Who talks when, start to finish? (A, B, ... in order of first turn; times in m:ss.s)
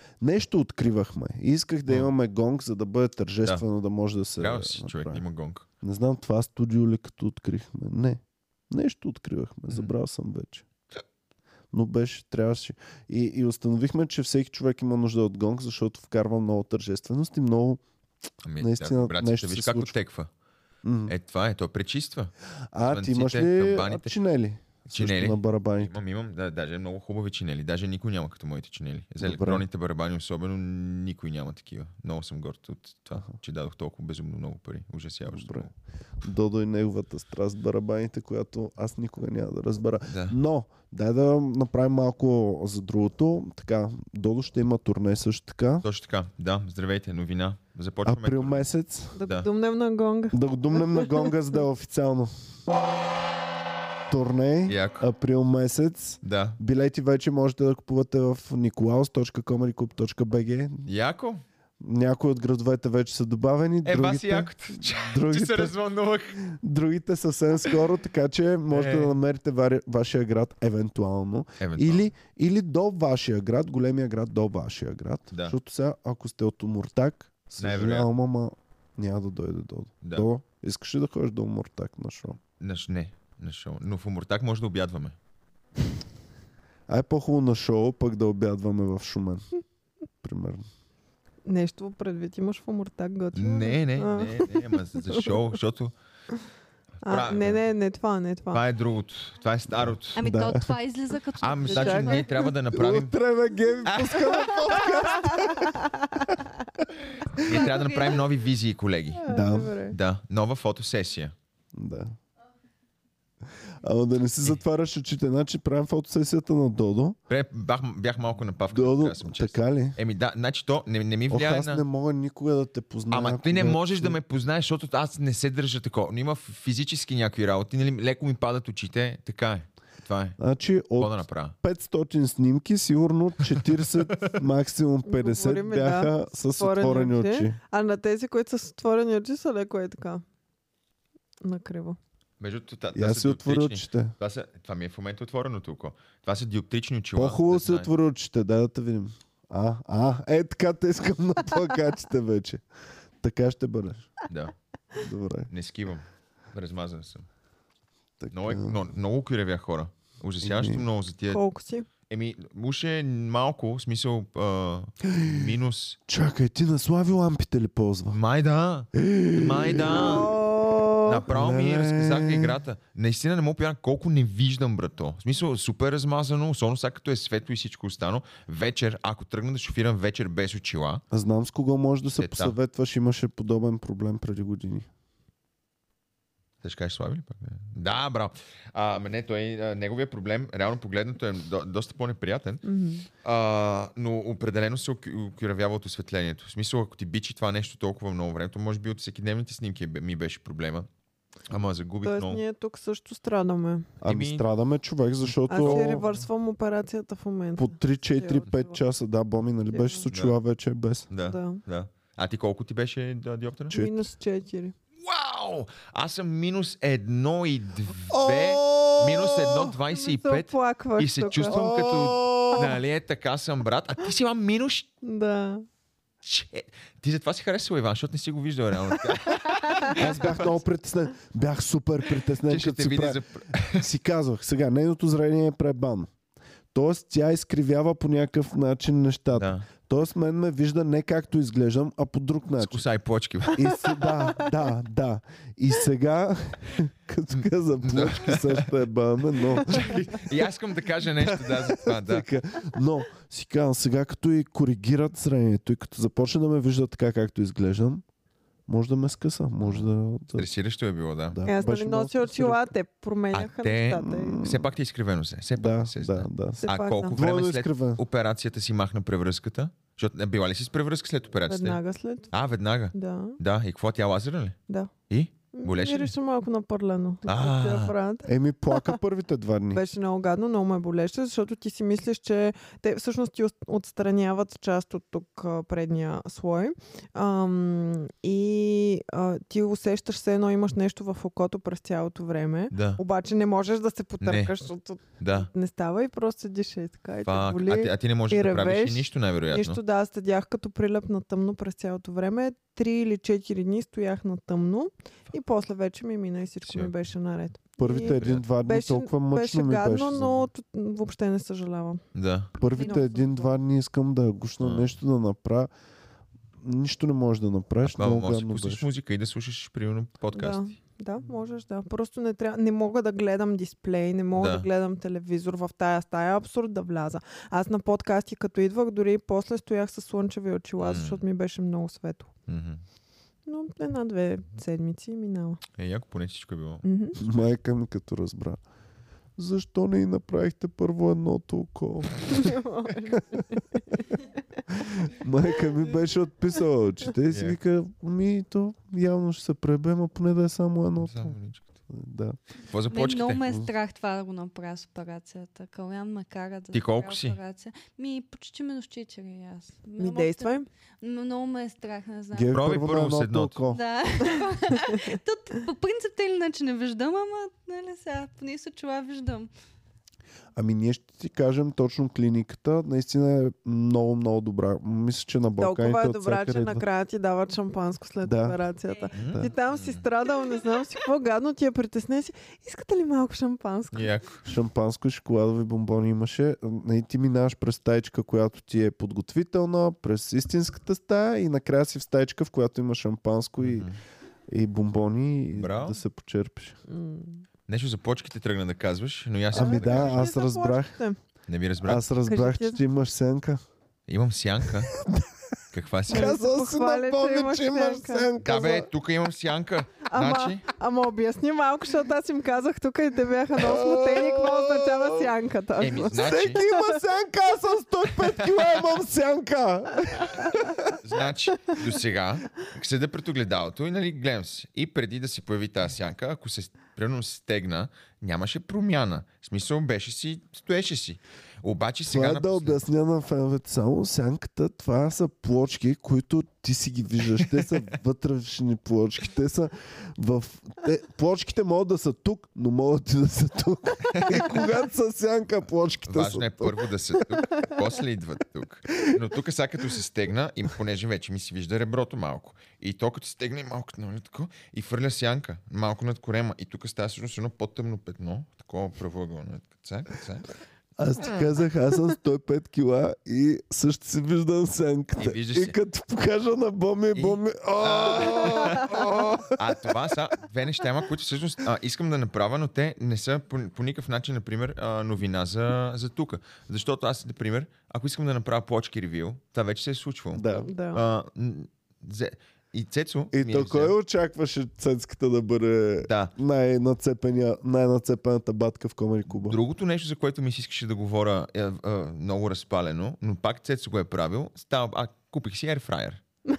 0:00.2-0:05.2 A
0:04.4-0:05.7 B
0:05.8-0:10.6 A
0:11.7-0:17.8 A
0:18.4-0:20.3 B
0:18.6-0:19.9 A
0:20.8-0:21.1 A
0:21.1-0:22.3 B
0:22.7-0:25.9 A
0:22.8-0:24.1 B
0:24.8-0:35.7 B
0:29.2-0:29.6 A
0:35.3-0:35.7 A
0:36.2-0:45.9 A
0:40.1-0:40.4 B
0:45.8-0:48.7 B
0:48.0-0:49.2 A
0:49.2-0:51.3 C
0:49.2-0:49.5 B
0:50.3-0:52.3 A
0:54.1-1:00.9 A
0:54.7-0:55.0 B
0:56.2-0:56.6 B
1:00.8-1:01.4 B
1:01.8-1:05.8 A
1:03.8-1:06.4 B
1:06.4-1:22.4 A
1:08.7-1:09.1 B
1:11.6-1:12.1 B
1:15.3-1:15.6 B
1:17.6-1:18.1 B
1:22.6-1:25.2 B
1:26.9-1:29.4 A
1:30.2-1:30.6 A
1:31.4-1:35.4 C
1:33.3-1:35.9 B
1:37.0-1:37.6 B
1:37.0-1:38.6 C
1:38.5-1:40.2 B
1:40.1-1:42.4 D
1:40.2-1:40.7 A
1:41.4-1:43.1 B
1:41.6-1:42.4 C
1:42.7-1:46.4 A
1:43.8-1:45.3 B
1:45.0-1:46.2 C
1:47.3-1:49.3 B
1:47.5-1:48.1 D
1:49.2-1:50.0 C
1:49.3-1:49.7 A
1:49.8-1:51.3 B
1:51.7-1:52.2 A
1:53.8-1:57.2 A
1:57.3-2:01.8 B
1:58.7-2:00.0 A
2:01.3-2:04.2 A
2:03.1-2:10.4 B
2:10.4-2:17.6 A
2:11.0-2:11.5 B
2:13.5-2:14.3 B
2:15.0-2:20.2 C
2:21.4-2:22.0 C
2:22.4-2:27.9 B
2:22.9-2:24.1 A
2:27.1-2:32.6 A
2:33.2-2:34.1 A
2:34.3-2:34.5 B
2:35.0-2:35.5 A
2:35.5-2:37.3 B
2:38.2-2:38.8 A
2:38.3-2:41.4 B
2:40.4-2:40.8 A
2:41.3-2:41.9 C
2:42.1-2:46.0 B
2:45.0-2:45.4 A
2:46.1-2:48.2 A
2:48.1-2:50.3 B
2:48.9-2:50.3 A
2:49.9-2:51.2 C
2:51.0-3:01.0 B
2:51.3-2:52.6 A
3:01.1-3:04.9 A
3:02.0-3:02.6 B
3:06.6-3:12.6 B
3:12.6-3:13.1 C
3:13.2-3:20.9 B
3:21.5-3:22.4 B
3:22.0-3:23.9 C
3:24.0-3:24.4 B
3:24.0-3:26.0 A
3:25.5-3:28.8 C
3:25.6-3:26.3 B
3:27.6-3:31.1 A
3:29.7-3:30.0 C
3:30.1-3:30.4 B
3:31.1-3:33.8 B
3:31.2-3:31.6 C
3:33.7-3:34.0 A
3:33.7-3:34.7 C
3:35.0-3:44.9 B
3:38.1-3:39.7 A
3:39.9-3:41.6 C
3:41.4-3:42.7 A
3:45.0-3:45.6 C
3:46.2-3:50.6 B
3:49.9-3:53.2 A
3:52.4-3:53.8 B
3:53.7-3:56.1 A
3:56.7-4:02.8 A
3:59.3-3:59.7 B
4:02.6-4:03.8 B
4:03.5-4:10.3 A
4:07.3-4:08.7 B
4:09.5-4:12.3 B
4:11.2-4:18.0 A
4:18.7-4:20.5 A
4:19.6-4:21.4 B
4:21.3-4:22.7 A
4:21.4-4:24.4 C
4:23.3-4:31.8 B
4:24.1-4:24.6 A
4:25.5-4:28.0 A
4:26.6-4:27.2 C
4:31.5-4:32.3 C
4:32.3-4:34.6 B
4:32.9-4:33.4 C
4:35.1-4:36.1 B
4:35.5-4:39.0 C
4:37.2-4:37.9 B
4:38.2-4:39.8 A
4:39.7-5:12.0 C
4:52.7-4:53.0 B
4:54.2-4:54.5 B
4:55.2-4:55.5 B
4:57.2-4:59.8 B
5:06.6-5:06.9 B
5:07.8-5:10.5 A
5:08.1-5:08.4 B
5:12.1-5:12.5 B
5:12.6-5:15.7 A
5:12.7-5:13.5 D
5:12.8-5:13.1 C
5:14.6-5:14.9 B
5:16.6-5:18.8 A
5:17.8-5:20.7 B
5:20.3-5:32.3 C
5:24.3-5:24.7 B
5:30.8-5:31.2 B
5:32.5-5:32.8 B
5:33.5-5:35.6 C
5:35.8-5:36.8 B
5:36.8-5:37.2 C
5:37.2-5:38.6 A
5:39.4-5:42.6 A
5:42.3-5:44.2 C
5:44.7-5:51.4 A
5:47.3-5:47.6 B
5:51.0-5:51.7 B
5:51.9-5:52.4 A
5:52.6-5:53.5 B
5:52.9-6:02.6 D
5:56.7-5:57.4 B
6:00.0-6:00.7 C
6:02.3-6:03.8 A
6:02.5-6:03.6 B
6:03.7-6:09.5 D
6:10.6-6:16.8 A
6:15.6-6:24.1 C
6:18.2-6:18.6 A
6:19.1-6:20.0 B
6:23.9-6:24.4 B
6:24.4-6:33.9 A
6:33.6-6:34.0 B
6:34.5-6:36.8 A
6:35.5-6:36.0 B
6:36.9-6:37.4 C
6:37.7-6:40.2 B
6:39.5-6:40.9 A
6:39.5-6:41.2 C
6:41.5-6:42.0 B
6:41.8-6:43.6 A
6:42.2-6:42.8 C
6:44.1-6:44.9 B
6:44.9-6:45.3 A
6:45.7-6:46.4 B
6:46.1-6:48.9 A
6:46.1-6:48.3 C
6:48.4-6:50.6 B
6:50.0-6:57.0 C
6:53.6-6:55.3 A
6:55.8-6:56.6 B
6:56.0-7:01.0 A
6:58.4-6:58.8 B
7:01.0-7:12.8 B
7:12.1-7:26.8 A
7:24.1-7:24.4 B
7:26.0-7:40.5 B
7:41.0-7:49.9 A
7:45.2-7:45.8 B
7:47.1-8:03.9 B
8:00.3-8:00.7 A
8:00.6-8:01.0 C
8:03.3-8:09.6 A
8:06.0-8:06.3 B
8:09.3-8:16.2 B